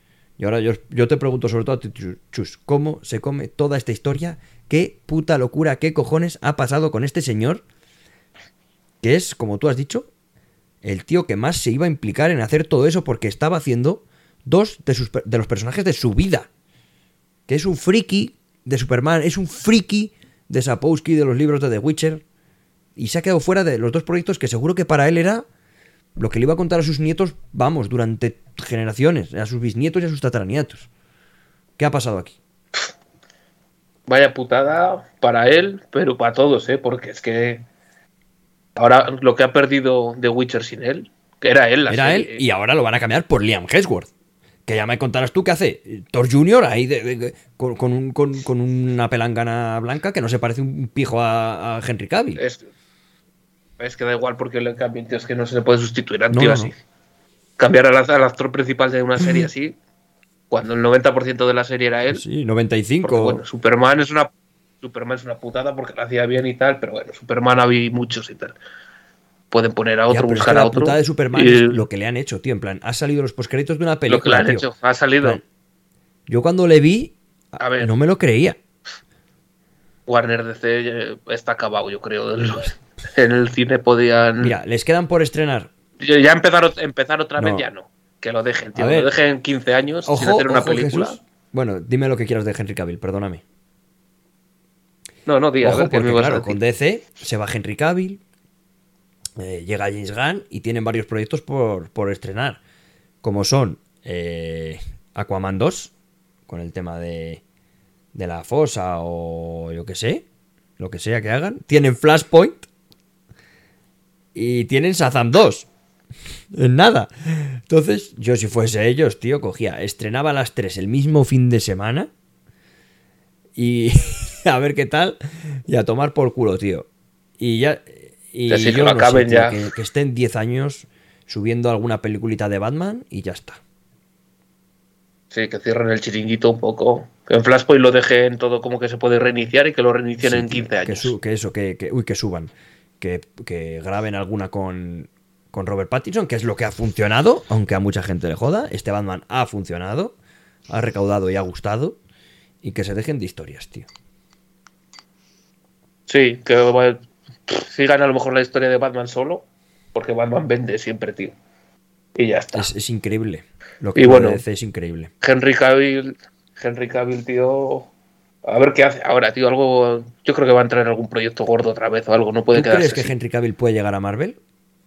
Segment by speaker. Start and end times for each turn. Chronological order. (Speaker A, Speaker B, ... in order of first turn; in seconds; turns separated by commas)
Speaker A: 0.4-7.6, Speaker A: 9.0-10.1, Speaker A: 10.8-16.5, Speaker A: 17.5-22.2, Speaker A: 23.0-25.4, Speaker A: 26.2-30.9, Speaker A: 31.8-32.4, Speaker B: 34.1-37.6, Speaker B: 38.8-42.4, Speaker A: 41.9-44.1, Speaker A: 44.7-52.4, Speaker B: 52.4-52.6, Speaker B: 53.8-56.8, Speaker A: 56.3-56.7, Speaker B: 57.6-59.8, Speaker B: 60.5-62.2, Speaker A: 62.1-63.4, Speaker B: 63.0-64.3, Speaker B: 64.8-68.5, Speaker B: 69.5-71.8, Speaker A: 70.1-74.7, Speaker B: 74.1-75.4, Speaker A: 76.3-78.6, Speaker B: 77.6-77.9, Speaker B: 80.1-84.5, Speaker A: 84.4-85.7, Speaker B: 86.0-91.2, Speaker A: 87.4-87.7, Speaker A: 88.8-89.1, Speaker A: 90.0-93.4, Speaker B: 95.3-96.6, Speaker A: 95.6-98.2, Speaker A: 99.4-102.6, Speaker A: 103.2-105.9, Speaker A: 106.5-107.4, Speaker A: 108.2-110.2, Speaker A: 110.8-112.7, Speaker A: 114.3-115.7, Speaker A: 116.5-122.1, Speaker A: 123.6-126.9, Speaker A: 127.4-133.6, Speaker B: 128.5-129.6, Speaker B: 135.3-141.1, Speaker A: 140.2-150.1, Speaker A: 150.7-152.0, Speaker A: 152.6-153.9, Speaker B: 156.1-159.4, Speaker B: 159.9-161.3, Speaker B: 162.2-162.7, Speaker A: 162.5-165.1, Speaker B: 164.0-164.4, Speaker B: 165.2-167.9, Speaker B: 168.4-173.1, Speaker A: 172.5-174.4